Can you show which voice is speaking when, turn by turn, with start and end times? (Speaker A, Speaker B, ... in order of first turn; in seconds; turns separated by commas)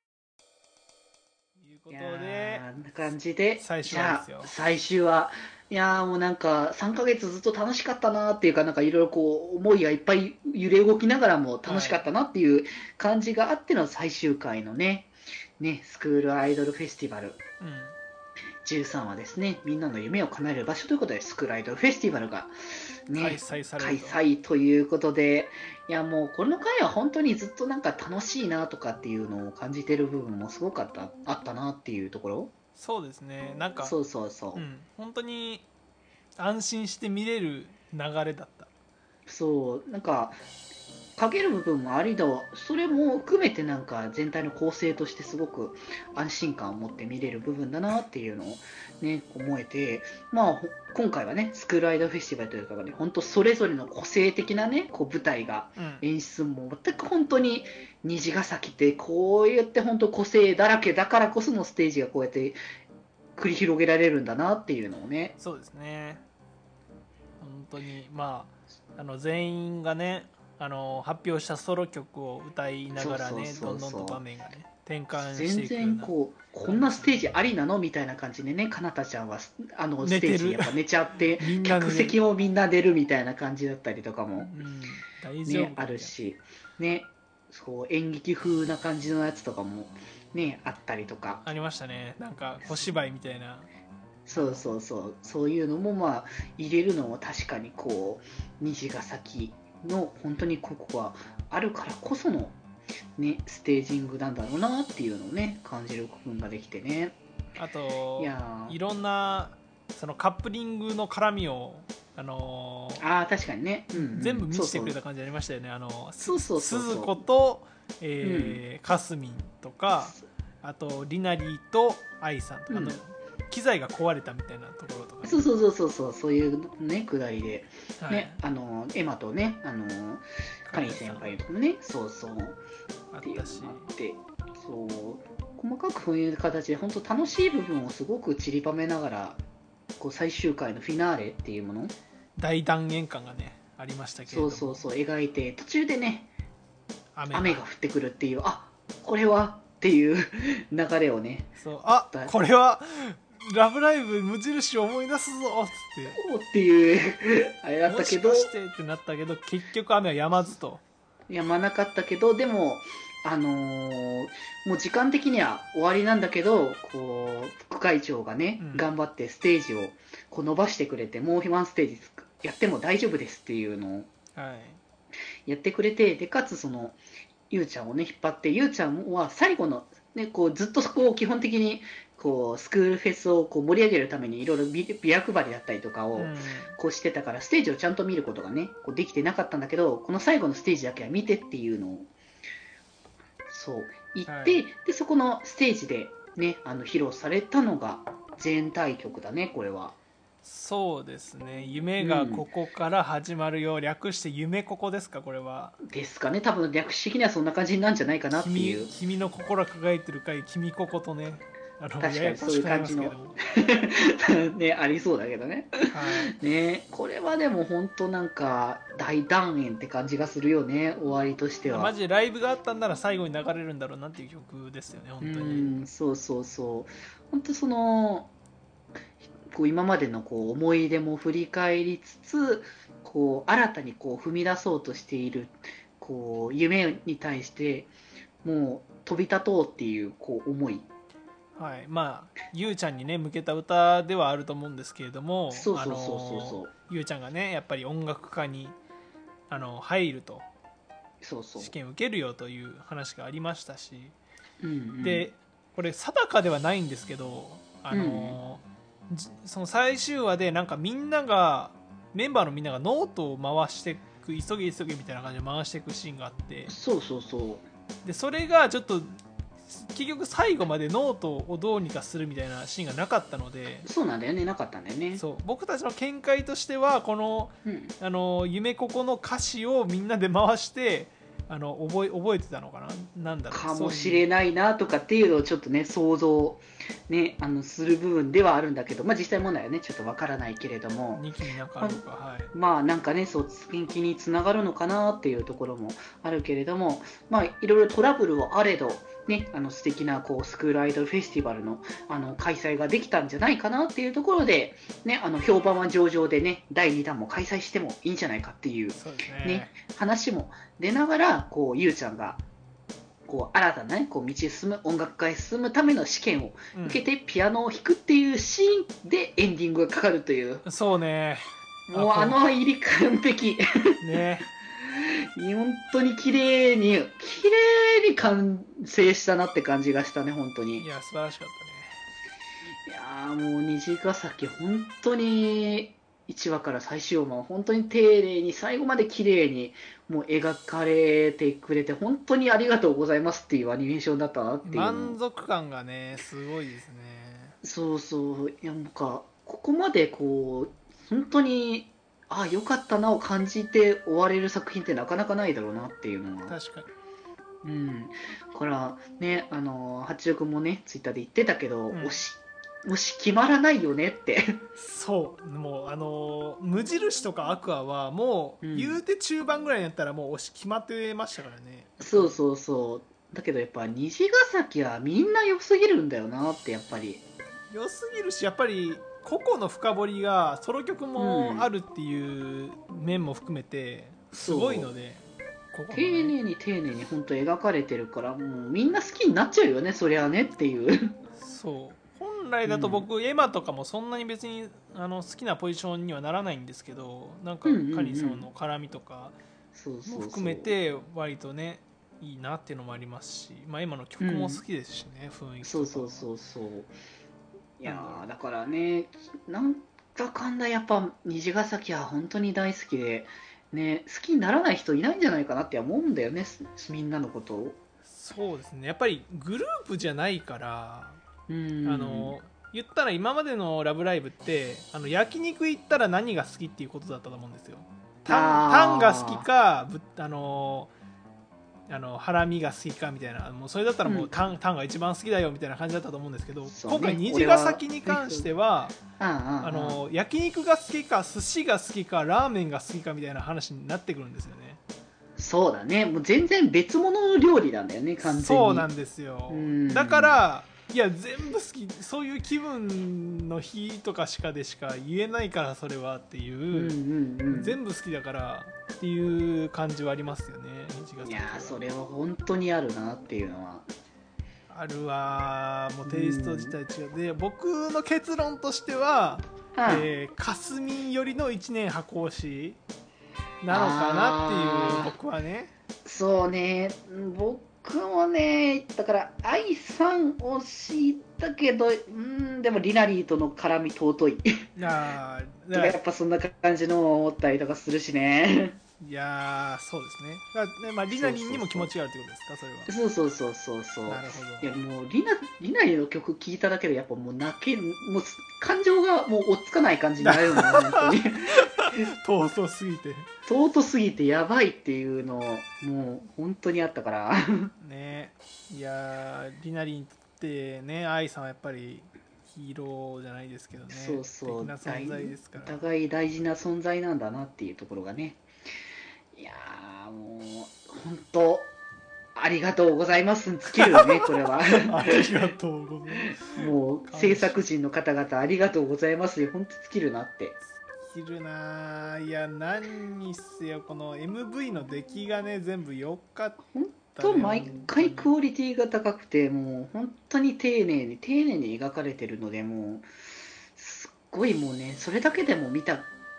Speaker A: 1.6-4.5, Speaker B: 1.9-17.4, Speaker A: 11.7-12.0, Speaker A: 17.6-17.9, Speaker B: 18.6-22.5, Speaker B: 23.1-32.5, Speaker A: 23.2-24.2, Speaker A: 32.7-34.0, Speaker B: 33.8-34.6, Speaker A: 34.5-35.6, Speaker A: 36.4-38.7, Speaker B: 39.3-40.4, Speaker B: 41.1-62.6, Speaker A: 55.8-56.0, Speaker B: 63.4-65.3, Speaker A: 65.4-66.2, Speaker A: 67.4-76.1, Speaker B: 72.9-74.2, Speaker B: 75.2-84.5, Speaker A: 76.6-77.4, Speaker A: 80.0-80.8, Speaker A: 81.3-82.2, Speaker A: 84.4-86.1, Speaker B: 85.5-91.4, Speaker A: 91.4-93.7, Speaker B: 92.6-93.0, Speaker B: 94.3-102.6, Speaker A: 94.3-94.8, Speaker B: 103.2-107.2, Speaker A: 107.6-113.0, Speaker B: 108.2-108.8, Speaker B: 113.0-115.0, Speaker A: 113.9-125.5, Speaker B: 116.2-117.2, Speaker B: 118.2-118.6, Speaker B: 120.0-120.2, Speaker B: 122.7-123.0, Speaker B: 125.2-132.6, Speaker A: 128.0-128.4, Speaker A: 130.7-131.4, Speaker A: 133.1-133.9, Speaker B: 133.2-139.4, Speaker B: 140.0-141.9, Speaker A: 142.4-144.8, Speaker B: 144.3-146.3, Speaker A: 147.1-147.6, Speaker B: 147.3-152.3, Speaker A: 151.6-156.2, Speaker B: 156.0-158.5, Speaker A: 157.8-160.8, Speaker B: 161.3-174.1, Speaker A: 168.6-168.9, Speaker A: 174.3-174.8, Speaker B: 175.4-177.0, Speaker B: 177.5-192.1, Speaker A: 186.1-186.8, Speaker B: 193.5-200.0, Speaker A: 194.2-194.6, Speaker A: 200.4-205.8, Speaker B: 202.0-202.4, Speaker B: 205.9-208.9, Speaker A: 208.3-213.4, Speaker B: 212.0-215.8, Speaker A: 215.9-216.3, Speaker B: 216.4-221.9, Speaker A: 221.7-225.8, Speaker B: 225.2-228.3, Speaker B: 229.4-237.9, Speaker B: 238.4-240.9, Speaker A: 241.6-248.8, Speaker B: 245.5-246.7, Speaker A: 249.5-250.5, Speaker B: 251.2-251.7, Speaker A: 251.6-254.2, Speaker B: 254.6-255.3, Speaker A: 255.0-266.7, Speaker B: 257.9-258.4, Speaker B: 266.7-267.6, Speaker A: 268.0-273.9, Speaker B: 273.8-275.2, Speaker A: 275.1-284.3, Speaker B: 277.6-277.9, Speaker B: 283.5-291.3, Speaker A: 291.1-292.5, Speaker B: 291.8-312.4, Speaker A: 308.9-309.8, Speaker B: 313.2-320.6, Speaker A: 316.7-317.0, Speaker A: 320.6-322.4, Speaker B: 321.9-323.6, Speaker A: 324.0-324.5, Speaker B: 325.3-330.9, Speaker A: 330.8-332.0, Speaker B: 332.9-345.2, Speaker A: 344.6-347.6, Speaker B: 347.6-356.6, Speaker A: 356.5-356.9, Speaker B: 357.6-364.6, Speaker A: 361.9-362.2, Speaker A: 364.8-372.4, Speaker B: 368.6-369.0, Speaker B: 372.0-377.2, Speaker A: 377.7-386.4, Speaker B: 381.1-381.7, Speaker B: 384.3-384.9, Speaker B: 385.9-391.1, Speaker A: 391.4-399.4, Speaker B: 392.6-393.1, Speaker B: 397.6-398.5, Speaker B: 399.7-400.8, Speaker A: 400.1-406.3, Speaker B: 404.2-404.6, Speaker B: 405.6-406.9, Speaker B: 407.8-417.8, Speaker A: 407.8-408.3, Speaker A: 418.0-421.2, Speaker B: 421.5-422.4, Speaker A: 421.8-430.9, Speaker B: 428.3-429.5, Speaker A: 431.9-439.0, Speaker B: 434.0-434.5, Speaker B: 436.7-438.5, Speaker B: 439.2-440.0, Speaker A: 439.6-444.8, Speaker B: 445.4-448.9, Speaker A: 448.2-456.9, Speaker B: 449.5-450.4, Speaker B: 456.7-457.8, Speaker A: 457.5-461.8, Speaker B: 461.2-463.9, Speaker A: 464.7-472.8, Speaker B: 466.0-466.8, Speaker B: 469.7-470.1, Speaker A: 473.6-475.7, Speaker B: 473.7-475.1, Speaker B: 476.0-484.5, Speaker A: 484.8-486.0, Speaker B: 485.7-488.8, Speaker A: 489.0-492.9, Speaker B: 491.1-491.9, Speaker B: 492.9-502.1, Speaker A: 494.1-494.8, Speaker A: 500.2-503.3, Speaker B: 503.5-507.7, Speaker A: 507.8-515.8, Speaker B: 513.9-518.4, Speaker B: 519.3-521.7, Speaker B: 522.4-525.2, Speaker A: 523.7-524.2, Speaker A: 524.8-527.6, Speaker B: 526.5-530.6, Speaker A: 531.0-538.3, Speaker B: 536.7-543.1, Speaker B: 543.8-546.1